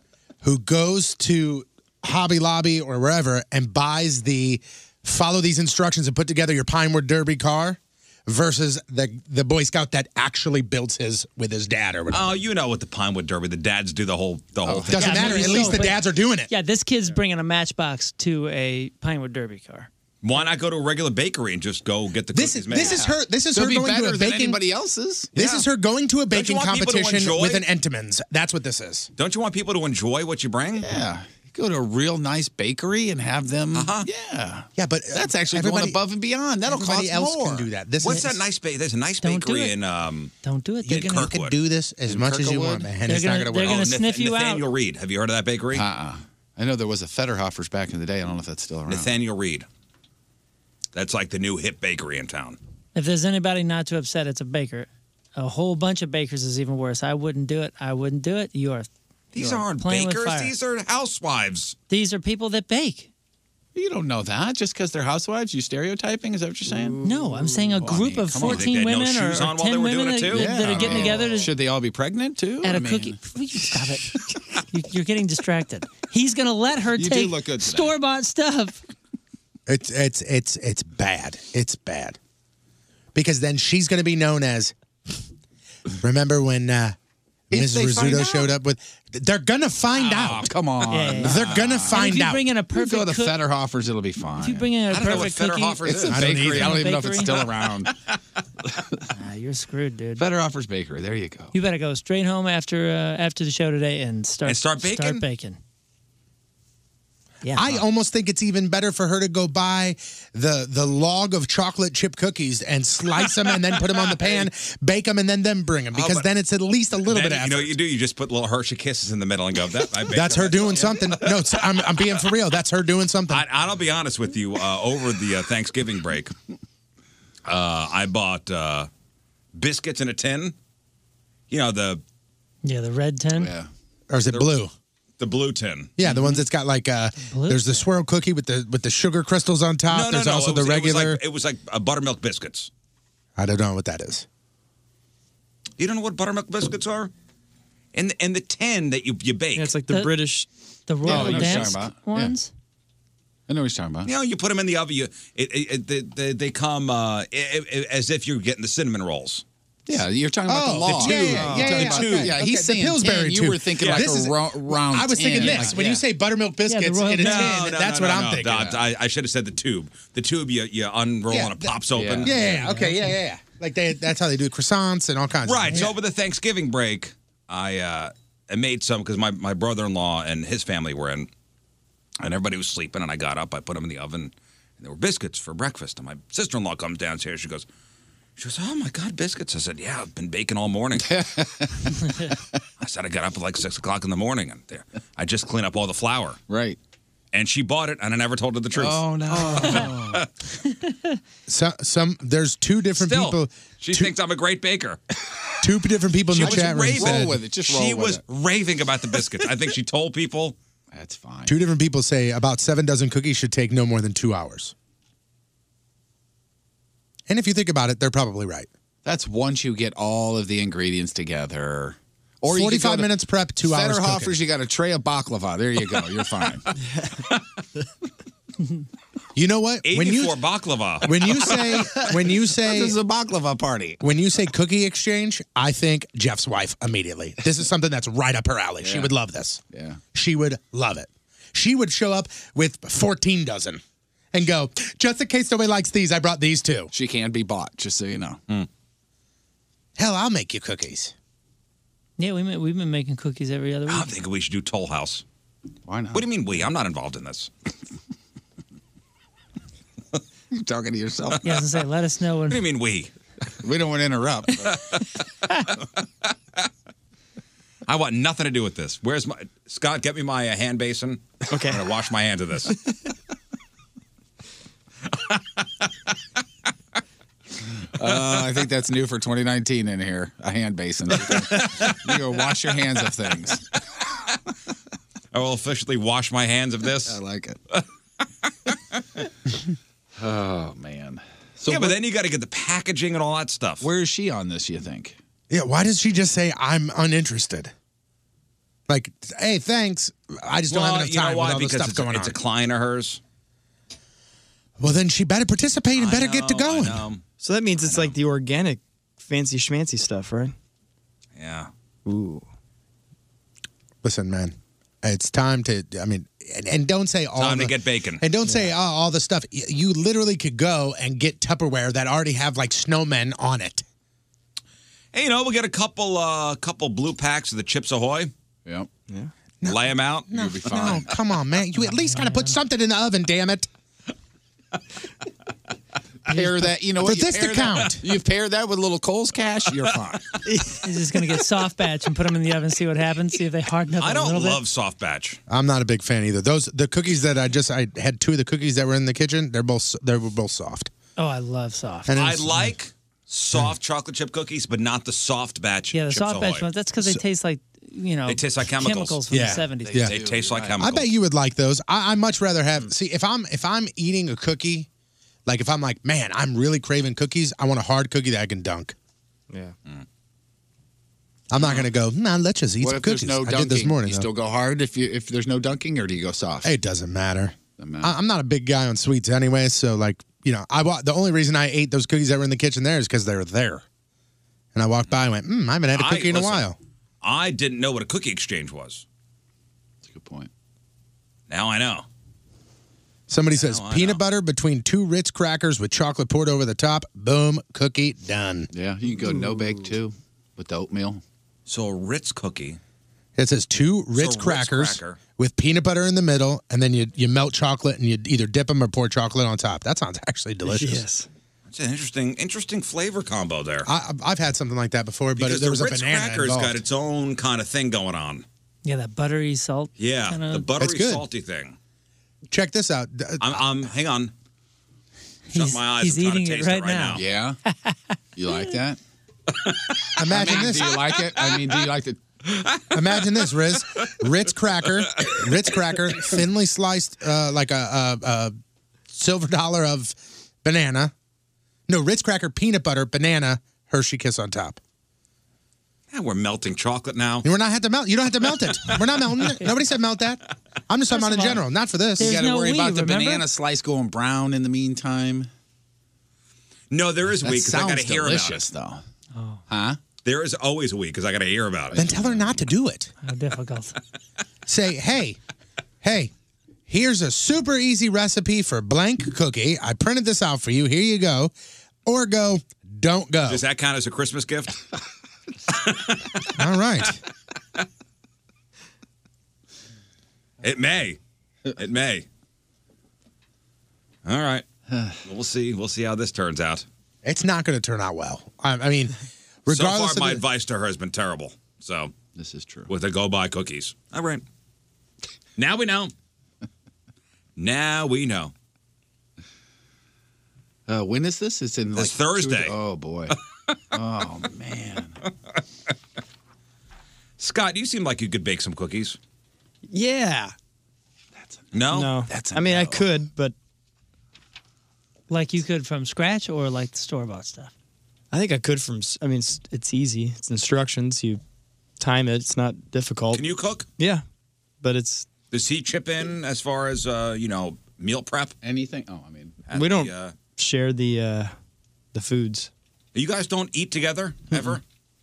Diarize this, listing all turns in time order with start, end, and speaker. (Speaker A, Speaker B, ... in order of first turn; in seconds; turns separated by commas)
Speaker A: 0.4-12.4, Speaker B: 12.1-15.8, Speaker C: 14.6-15.8, Speaker A: 14.9-16.5, Speaker D: 14.9-19.9, Speaker B: 20.2-23.1, Speaker A: 22.3-24.6, Speaker C: 22.7-25.3, Speaker A: 25.4-29.1, Speaker B: 25.4-25.6, Speaker B: 26.3-27.6, Speaker B: 29.2-30.9, Speaker C: 30.8-37.7, Speaker B: 33.7-34.1, Speaker A: 34.8-36.0, Speaker A: 36.7-38.4, Speaker B: 38.0-40.3, Speaker D: 39.2-39.8, Speaker D: 40.4-41.3, Speaker A: 40.9-43.8, Speaker B: 40.9-41.6, Speaker C: 42.1-42.9, Speaker D: 43.1-44.6, Speaker B: 43.5-45.8, Speaker C: 45.7-49.1, Speaker B: 48.9-49.7, Speaker B: 50.9-52.6, Speaker D: 53.0-60.5, Speaker B: 59.3-61.8, Speaker D: 61.9-63.1, Speaker C: 63.8-68.8, Speaker D: 67.0-71.5, Speaker B: 68.3-71.2, Speaker C: 70.3-73.2, Speaker D: 72.6-74.1, Speaker D: 74.7-78.8, Speaker C: 77.0-77.9, Speaker A: 79.7-82.2, Speaker A: 83.1-84.7, Speaker A: 86.0-87.0, Speaker C: 87.5-88.5, Speaker A: 87.5-90.5, Speaker B: 90.0-90.4, Speaker C: 90.2-92.2, Speaker D: 90.9-93.4, Speaker A: 91.2-92.4, Speaker C: 92.7-94.7, Speaker D: 94.4-97.4, Speaker B: 94.9-96.8, Speaker C: 95.9-97.9, Speaker A: 96.1-96.9, Speaker C: 98.7-99.0, Speaker D: 99.1-100.3, Speaker C: 100.2-101.5, Speaker D: 101.5-105.6, Speaker B: 104.5-105.2, Speaker A: 107.5-117.7, Speaker B: 113.2-114.5, Speaker B: 115.9-116.3, Speaker B: 117.0-122.1, Speaker A: 120.1-123.4, Speaker B: 123.3-126.3, Speaker B: 127.5-128.9, Speaker B: 129.6-130.6, Speaker B: 131.5-132.0, Speaker D: 132.6-133.5, Speaker C: 133.3-133.7, Speaker A: 134.1-134.7, Speaker B: 135.2-135.9, Speaker A: 136.0-141.2, Speaker D: 137.2-137.9, Speaker B: 139.9-142.7, Speaker A: 143.4-144.3, Speaker B: 145.8-147.1, Speaker B: 147.9-149.7, Speaker E: 149.6-150.5, Speaker D: 149.9-150.1, Speaker D: 150.9-152.5, Speaker C: 151.0-152.3, Speaker C: 153.5-154.1, Speaker B: 154.1-159.4, Speaker C: 159.9-166.0, Speaker A: 160.5-168.8, Speaker B: 160.9-162.4, Speaker B: 163.8-164.1, Speaker D: 165.4-165.8, Speaker D: 166.7-167.7, Speaker B: 167.2-172.3, Speaker A: 171.3-175.9, Speaker C: 171.9-172.8, Speaker D: 172.6-173.1, Speaker B: 175.4-181.3, Speaker B: 182.2-187.7, Speaker B: 188.4-191.1, Speaker C: 191.0-191.9, Speaker B: 192.8-196.4, Speaker C: 196.5-196.8, Speaker B: 197.3-200.3, Speaker C: 198.7-200.2, Speaker A: 201.5-204.1, Speaker B: 203.0-205.0, Speaker A: 205.6-207.4, Speaker B: 206.3-210.6, Speaker C: 206.4-208.2, Speaker C: 210.9-211.6, Speaker A: 211.5-214.7, Speaker A: 217.3-218.7, Speaker C: 219.1-226.6, Speaker A: 222.5-224.4, Speaker A: 229.4-230.4, Speaker B: 229.8-231.6, Speaker A: 231.0-233.0, Speaker C: 232.6-234.0, Speaker A: 234.0-239.6, Speaker C: 238.8-239.1, Speaker C: 239.7-240.0, Speaker A: 240.1-243.8, Speaker A: 244.3-246.9, Speaker C: 246.9-248.4, Speaker A: 250.0-251.1, Speaker D: 252.2-254.1, Speaker B: 253.9-255.2, Speaker C: 255.9-256.2, Speaker B: 256.1-257.5, Speaker C: 260.5-261.6, Speaker D: 261.4-262.6, Speaker B: 262.5-263.1, Speaker C: 263.6-264.7, Speaker B: 267.9-272.7, Speaker E: 271.5-271.8, Speaker C: 278.0-283.6, Speaker B: 285.3-287.2, Speaker C: 287.1-287.6, Speaker C: 290.2-292.0, Speaker B: 291.7-293.9, Speaker C: 293.8-295.2, Speaker A: 295.5-297.7, Speaker A: 298.9-302.4, Speaker B: 300.7-303.2, Speaker A: 304.8-307.1, Speaker B: 305.9-307.2, Speaker E: 307.4-310.6, Speaker B: 307.8-308.1, Speaker B: 311.4-311.7, Speaker E: 312.1-312.5, Speaker A: 314.0-323.9, Speaker B: 317.4-318.2, Speaker E: 318.4-318.7, Speaker B: 325.1-328.3, Speaker A: 329.6-333.7, Speaker B: 329.6-330.3, Speaker C: 330.3-331.1, Speaker D: 331.9-332.6, Speaker C: 336.3-340.3, Speaker A: 337.0-338.1, Speaker E: 340.5-340.8, Speaker D: 340.8-344.6, Speaker B: 344.0-345.4, Speaker A: 345.5-350.9, Speaker D: 351.2-352.1, Speaker A: 352.1-352.7, Speaker B: 352.1-356.7, Speaker D: 355.9-360.1, Speaker B: 358.3-359.3, Speaker A: 359.3-360.1, Speaker C: 359.4-360.8, Speaker B: 360.0-361.1, Speaker A: 360.8-364.9, Speaker A: 365.5-368.9, Speaker E: 369.5-369.8, Speaker A: 371.5-374.3, Speaker C: 372.8-376.7, Speaker A: 376.6-383.8, Speaker C: 377.8-378.1, Speaker A: 384.8-386.8, Speaker B: 385.9-386.7, Speaker B: 387.2-389.1, Speaker C: 390.0-390.5, Speaker B: 391.5-392.1, Speaker A: 393.3-398.7, Speaker B: 393.5-394.2, Speaker C: 398.7-401.2, Speaker B: 401.7-402.8, Speaker A: 403.4-411.1, Speaker B: 404.1-405.2, Speaker E: 410.6-411.3, Speaker B: 411.7-413.9, Speaker A: 413.9-416.8, Speaker B: 415.4-418.4, Speaker D: 418.9-420.7, Speaker B: 420.0-421.8, Speaker A: 420.8-421.2, Speaker A: 422.5-423.6, Speaker B: 423.4-424.3, Speaker D: 425.5-428.8, Speaker B: 425.5-427.2, Speaker C: 427.1-427.6, Speaker C: 428.4-429.0, Speaker B: 429.7-430.2, Speaker A: 430.2-431.0, Speaker C: 430.3-432.2, Speaker A: 432.9-438.6, Speaker A: 439.1-441.1, Speaker A: 441.9-444.8, Speaker B: 446.1-447.4, Speaker A: 447.4-452.4, Speaker D: 451.1-451.6, Speaker D: 452.2-453.4, Speaker C: 452.2-455.5, Speaker B: 456.9-458.6, Speaker C: 457.5-459.0, Speaker A: 457.7-458.0, Speaker D: 459.3-459.6, Speaker C: 459.7-460.0, Speaker B: 460.2-462.0, Speaker C: 461.9-462.6, Speaker A: 462.0-463.1, Speaker D: 463.2-464.0, Speaker A: 464.7-465.4, Speaker A: 466.0-466.3, Speaker A: 466.9-471.5, Speaker A: 472.1-473.6, Speaker B: 473.5-474.8, Speaker B: 475.8-476.2, Speaker A: 476.6-477.2, Speaker B: 480.6-481.2, Speaker B: 481.8-482.3, Speaker B: 484.2-484.7, Speaker C: 484.9-485.2, Speaker B: 485.2-486.9, Speaker A: 487.2-490.4, Speaker B: 489.7-492.1, Speaker C: 492.3-492.9, Speaker B: 492.9-494.4, Speaker B: 495.6-496.1, Speaker B: 497.6-498.5, Speaker C: 500.9-503.4, Speaker B: 502.0-502.8, Speaker C: 503.9-505.2, Speaker B: 507.4-509.2, Speaker E: 509.9-510.5, Speaker C: 511.4-513.1, Speaker B: 511.7-512.2, Speaker E: 511.9-513.5, Speaker D: 515.3-517.7, Speaker E: 518.3-521.4, Speaker E: 522.0-523.4, Speaker B: 523.3-523.9, Speaker E: 524.0-524.2, Speaker E: 524.8-525.3, Speaker B: 525.5-528.5, Speaker C: 528.6-529.6, Speaker B: 529.7-530.3, Speaker E: 529.7-531.5, Speaker E: 532.1-532.7, Speaker B: 533.1-534.8, Speaker E: 534.5-534.8